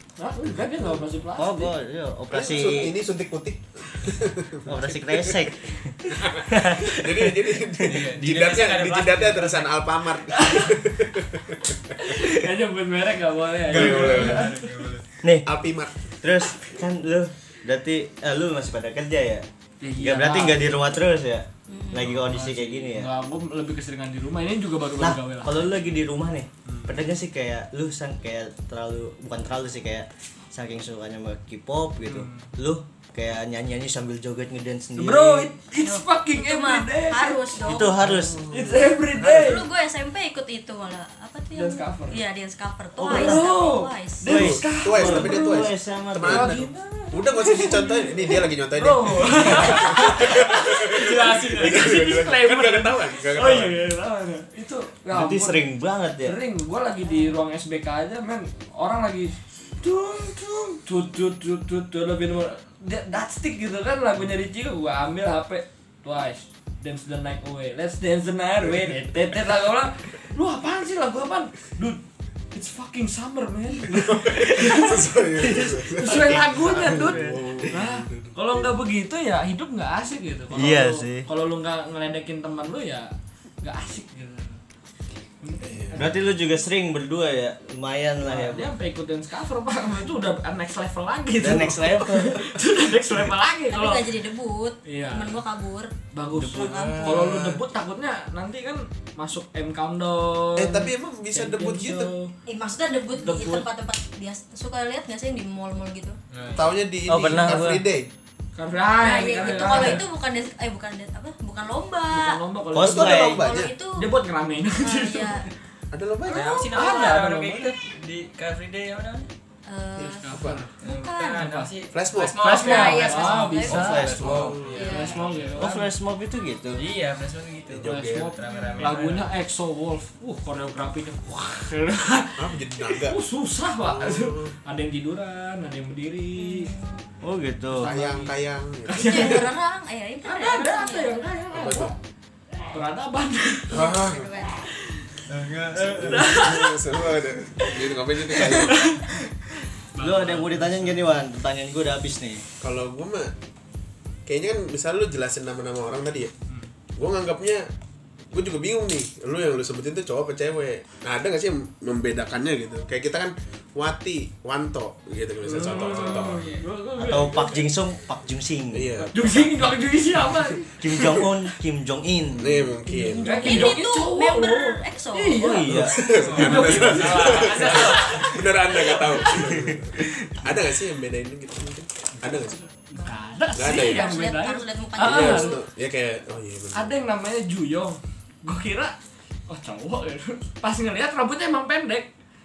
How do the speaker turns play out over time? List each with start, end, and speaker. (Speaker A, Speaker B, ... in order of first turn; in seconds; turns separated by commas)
Speaker A: 0.2-1.7, Speaker B: 0.5-0.8, Speaker C: 1.4-3.0, Speaker B: 2.3-12.2, Speaker C: 4.7-8.0, Speaker D: 7.8-9.8, Speaker A: 10.3-10.8, Speaker A: 11.9-14.7, Speaker B: 13.7-14.6, Speaker D: 13.7-15.0, Speaker B: 15.4-16.1, Speaker C: 16.2-19.4, Speaker A: 19.8-20.6, Speaker C: 20.0-23.1, Speaker E: 21.7-22.0, Speaker A: 21.9-25.7, Speaker C: 25.0-35.5, Speaker A: 26.6-27.0, Speaker A: 32.0-32.5, Speaker A: 35.0-39.7, Speaker E: 35.8-38.0, Speaker C: 37.6-38.4, Speaker B: 38.1-39.0, Speaker E: 39.2-44.2, Speaker A: 41.5-42.2, Speaker A: 43.0-45.7, Speaker C: 43.0-43.4, Speaker C: 44.3-46.7, Speaker B: 44.3-53.8, Speaker A: 46.2-55.6, Speaker D: 49.4-50.3, Speaker D: 50.9-51.9, Speaker C: 55.1-56.4, Speaker A: 56.2-84.6, Speaker E: 57.0-57.3, Speaker B: 73.9-78.7, Speaker C: 76.2-77.4, Speaker C: 80.5-81.3, Speaker A: 85.4-86.1, Speaker B: 85.6-86.2, Speaker C: 86.0-88.7, Speaker A: 88.2-94.0, Speaker C: 91.4-92.4, Speaker E: 93.7-95.9, Speaker A: 94.8-95.4, Speaker A: 96.1-102.3, Speaker C: 96.3-97.6, Speaker E: 96.6-97.1, Speaker B: 96.6-97.3, Speaker B: 100.5-102.1, Speaker E: 102.5-106.2, Speaker A: 103.2-103.7, Speaker D: 106.3-106.8, Speaker B: 106.5-108.1, Speaker C: 107.0-107.8, Speaker A: 108.5-110.0, Speaker E: 109.0-112.4, Speaker D: 109.4-109.7, Speaker A: 112.1-113.4, Speaker C: 112.7-113.4, Speaker B: 112.8-113.7, Speaker E: 113.2-114.1, Speaker A: 113.9-115.5, Speaker E: 114.8-115.5, Speaker B: 115.9-116.6, Speaker D: 116.3-119.3, Speaker A: 116.4-117.7, Speaker E: 119.7-121.5, Speaker B: 120.0-120.7, Speaker A: 120.2-120.7, Speaker D: 120.8-125.8, Speaker A: 121.3-121.7, Speaker B: 121.9-122.4, Speaker A: 122.4-124.2, Speaker E: 122.5-125.2, Speaker C: 123.7-124.6, Speaker B: 124.2-125.0, Speaker A: 124.8-125.9, Speaker C: 125.5-126.8, Speaker D: 126.8-129.3, Speaker B: 127.7-128.3, Speaker A: 127.8-136.8, Speaker E: 128.4-128.9, Speaker B: 132.3-133.2, Speaker B: 133.8-134.5, Speaker E: 136.4-137.0, Speaker C: 137.2-137.9, Speaker A: 137.7-138.3, Speaker B: 137.8-139.5, Speaker A: 138.8-139.5, Speaker E: 139.0-141.4, Speaker A: 140.2-142.0, Speaker B: 141.5-141.9, Speaker A: 142.7-143.8, Speaker B: 143.7-144.3, Speaker E: 143.7-144.6, Speaker A: 144.7-145.1, Speaker D: 145.3-146.5, Speaker B: 145.9-148.9, Speaker A: 146.0-146.8, Speaker A: 147.6-149.2, Speaker A: 149.9-151.1, Speaker C: 150.0-152.4, Speaker B: 152.6-153.3, Speaker B: 154.2-156.3, Speaker B: 157.0-157.7, Speaker B: 158.3-166.5, Speaker A: 165.4-167.7, Speaker D: 165.6-166.7, Speaker C: 167.0-168.9, Speaker B: 168.7-169.7, Speaker A: 169.1-170.9, Speaker C: 170.8-172.7, Speaker B: 172.4-173.7, Speaker A: 172.9-178.4, Speaker E: 173.2-175.6, Speaker C: 175.4-176.0, Speaker B: 175.7-182.7, Speaker D: 176.2-178.5, Speaker A: 178.9-179.4, Speaker C: 179.3-180.5, Speaker A: 182.9-185.6, Speaker E: 182.9-185.6, Speaker B: 183.5-184.1, Speaker B: 185.0-186.9, Speaker A: 186.7-188.9, Speaker A: 189.5-192.1